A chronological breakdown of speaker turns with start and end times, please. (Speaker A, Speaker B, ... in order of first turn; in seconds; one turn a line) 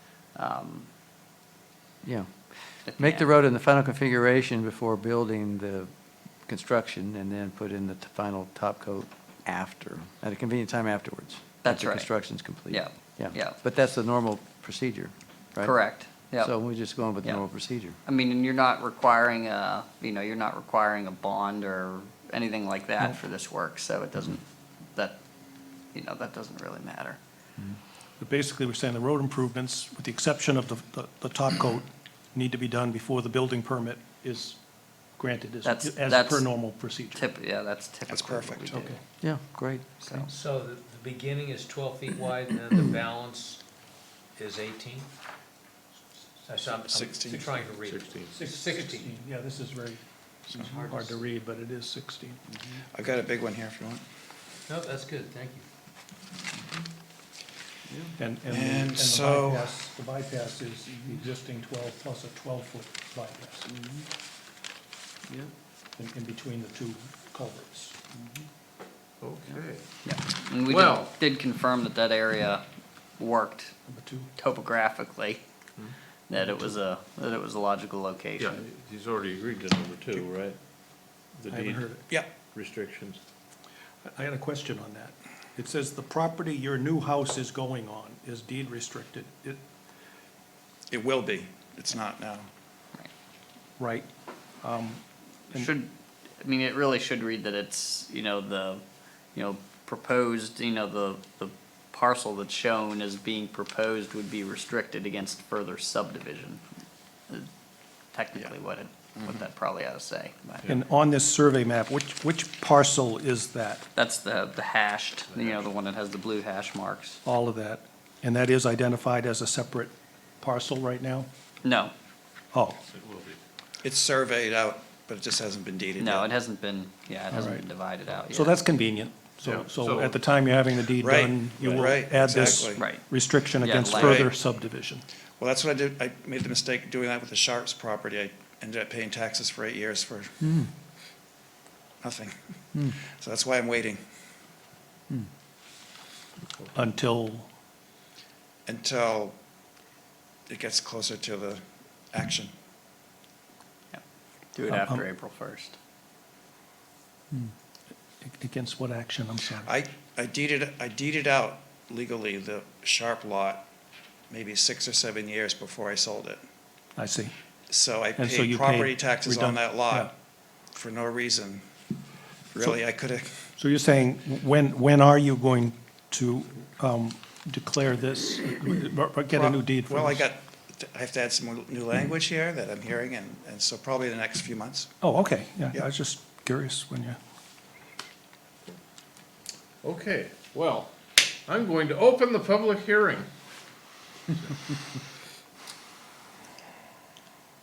Speaker A: 0.4-0.9
Speaker B: 2.0-2.4
Speaker A: 2.9-3.3
Speaker B: 3.0-5.9
Speaker B: 6.5-15.8
Speaker A: 11.6-12.1
Speaker A: 12.7-13.6
Speaker A: 15.6-16.5
Speaker B: 16.4-18.0
Speaker A: 18.1-25.2
Speaker A: 25.9-27.2
Speaker C: 28.2-34.6
Speaker C: 35.2-37.2
Speaker A: 35.6-36.5
Speaker A: 37.1-39.0
Speaker D: 38.1-38.7
Speaker C: 38.7-39.0
Speaker B: 39.2-39.9
Speaker A: 40.0-40.3
Speaker E: 40.3-43.6
Speaker E: 44.4-45.1
Speaker E: 46.4-49.1
Speaker D: 46.8-47.6
Speaker F: 47.8-48.4
Speaker C: 48.3-52.4
Speaker B: 52.6-52.8
Speaker D: 52.9-54.0
Speaker E: 54.7-55.7
Speaker B: 57.9-58.2
Speaker C: 58.2-63.7
Speaker D: 58.5-59.7
Speaker B: 63.7-64.1
Speaker C: 66.0-68.1
Speaker B: 68.2-68.4
Speaker F: 69.2-69.9
Speaker A: 70.0-72.6
Speaker F: 70.6-71.1
Speaker A: 73.2-73.7
Speaker C: 73.9-74.3
Speaker A: 74.4-75.4
Speaker A: 76.3-78.6
Speaker F: 78.4-80.6
Speaker F: 81.3-83.2
Speaker C: 81.5-82.1
Speaker C: 84.0-89.6
Speaker D: 90.9-92.5
Speaker C: 93.8-94.1
Speaker C: 94.6-95.7
Speaker A: 95.5-95.9
Speaker A: 96.4-98.8
Speaker A: 99.3-106.6
Speaker A: 108.1-110.6
Speaker C: 110.7-113.9
Speaker A: 114.0-117.2
Speaker F: 115.4-115.6
Speaker C: 117.2-121.3
Speaker A: 121.6-121.9
Speaker C: 122.5-122.8
Speaker F: 122.9-123.4
Speaker D: 123.8-126.3
Speaker A: 126.0-128.6
Speaker C: 127.3-127.6
Speaker C: 128.3-135.1
Speaker F: 129.4-130.2
Speaker D: 131.0-132.9
Speaker F: 131.6-131.9
Speaker A: 132.8-133.0
Speaker A: 133.6-134.2
Speaker D: 133.9-134.3
Speaker D: 135.4-140.4
Speaker B: 140.4-140.7
Speaker D: 142.0-142.3
Speaker D: 142.9-144.0
Speaker C: 146.8-147.5
Speaker D: 148.7-149.4
Speaker D: 150.5-152.5
Speaker A: 154.6-155.8
Speaker C: 154.7-155.1
Speaker C: 158.2-159.7
Speaker D: 159.7-163.7
Speaker D: 164.3-166.4
Speaker C: 167.0-167.3
Speaker D: 167.7-170.1
Speaker C: 168.2-170.1
Speaker D: 170.7-171.7
Speaker D: 172.5-173.3
Speaker C: 173.6-180.2
Speaker D: 179.3-184.9
Speaker C: 185.0-187.2
Speaker F: 189.8-193.3
Speaker F: 194.3-194.6